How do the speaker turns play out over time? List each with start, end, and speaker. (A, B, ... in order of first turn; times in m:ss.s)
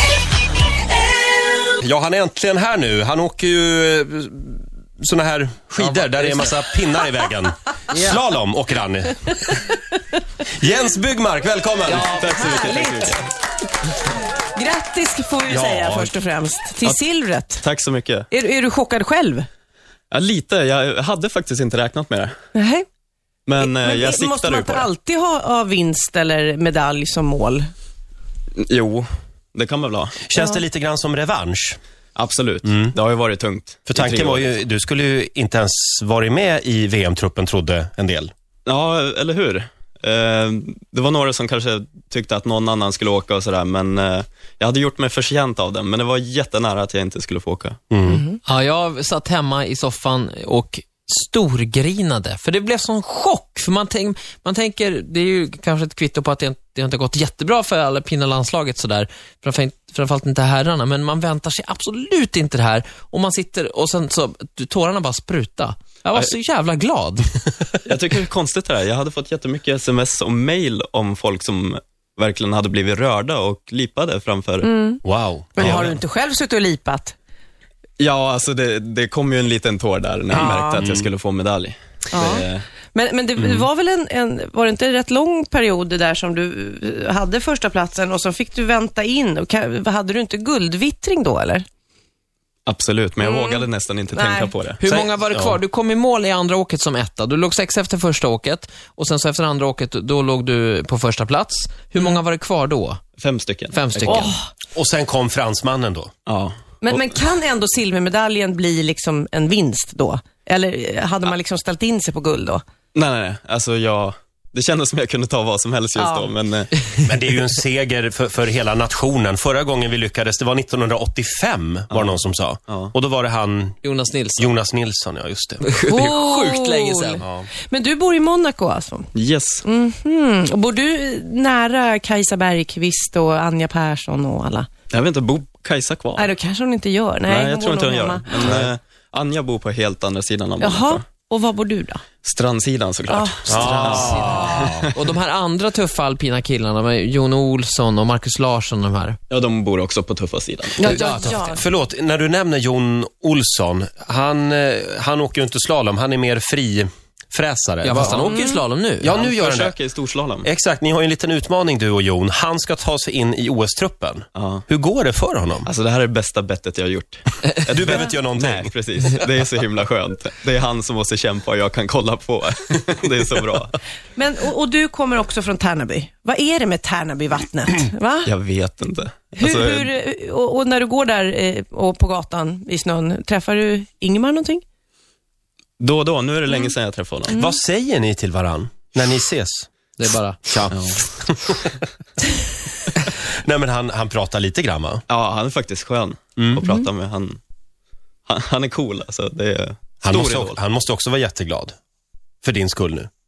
0:01.8-0:09.6 A
0:05.8-0:06.5 B
0:10.5-0:12.2 A
0:11.9-0:13.2 C
0:11.9-0:13.2 D
0:14.5-0:17.6 D
0:15.5-0:16.1 A
0:17.6-0:18.3 C
0:18.3-0:19.5 D
0:20.1-0:22.4 C
0:22.5-0:22.8 D
0:23.4-0:24.9 C
0:23.6-0:27.7 D
0:28.6-0:30.2 C
0:30.2-0:31.8 A
0:30.3-0:30.6 D
0:32.2-0:34.5 C
0:32.6-0:32.9 A
0:33.9-0:38.3 A
0:38.6-0:47.8 C
0:47.9-0:48.2 A
0:48.1-0:48.4 D
0:48.4-1:07.3 B
1:07.8-1:14.7 C
1:14.6-1:15.0 D
1:15.0-1:16.0 A
1:15.6-1:17.2 D
1:15.6-1:15.9 C
1:18.0-1:22.6 C
1:20.3-1:20.8 D
1:20.7-1:21.0 A
1:22.1-1:31.6 D
1:23.4-1:23.6 A
1:32.6-1:34.8 C
1:33.2-1:34.5 D
1:34.8-1:43.0 B
1:34.9-1:35.6 A
1:43.2-1:44.3 C
1:43.7-1:44.3 B
1:44.0-1:44.5 D
1:44.7-1:46.1 A
1:46.3-1:47.0 C
1:46.8-1:52.6 D
1:52.9-1:56.7 C
1:56.0-1:56.3 D
1:57.0-2:03.8 A
2:01.9-2:02.9 C
2:03.8-2:04.5 B
2:04.4-2:05.6 A
2:05.6-2:07.2 B
2:05.9-2:09.1 D
2:07.2-2:07.5 A
2:09.1-2:09.6 C
2:09.6-2:14.7 D
2:14.9-2:16.3 C
2:16.2-2:18.5 D
2:17.3-2:21.0 C
2:20.6-2:22.0 D
2:22.2-2:24.9 C
2:23.1-2:24.7 D
2:23.4-2:24.9 A
2:23.5-2:29.2 B
2:29.3-2:31.0 C
2:30.8-2:31.6 D
2:30.8-2:38.3 A
2:30.9-2:31.5 B
2:37.8-2:39.1 B
2:38.3-2:38.6 D
2:39.0-2:39.7 A
2:39.1-2:40.5 C
2:40.4-2:45.7 A
2:44.3-2:44.6 C
2:45.6-2:53.8 C
2:47.7-2:48.7 A
2:54.2-2:58.3 D
2:58.2-2:59.9 C
2:59.4-3:04.6 D
3:05.8-3:07.4 C
3:07.3-3:07.6 D
3:07.3-3:09.7 A
3:10.0-3:10.4 B
3:10.4-3:11.7 A
3:10.7-3:11.1 C
3:13.2-3:15.0 A
3:15.1-3:17.4 C
3:18.3-3:20.6 C
3:20.0-3:21.7 A
3:22.4-3:23.1 A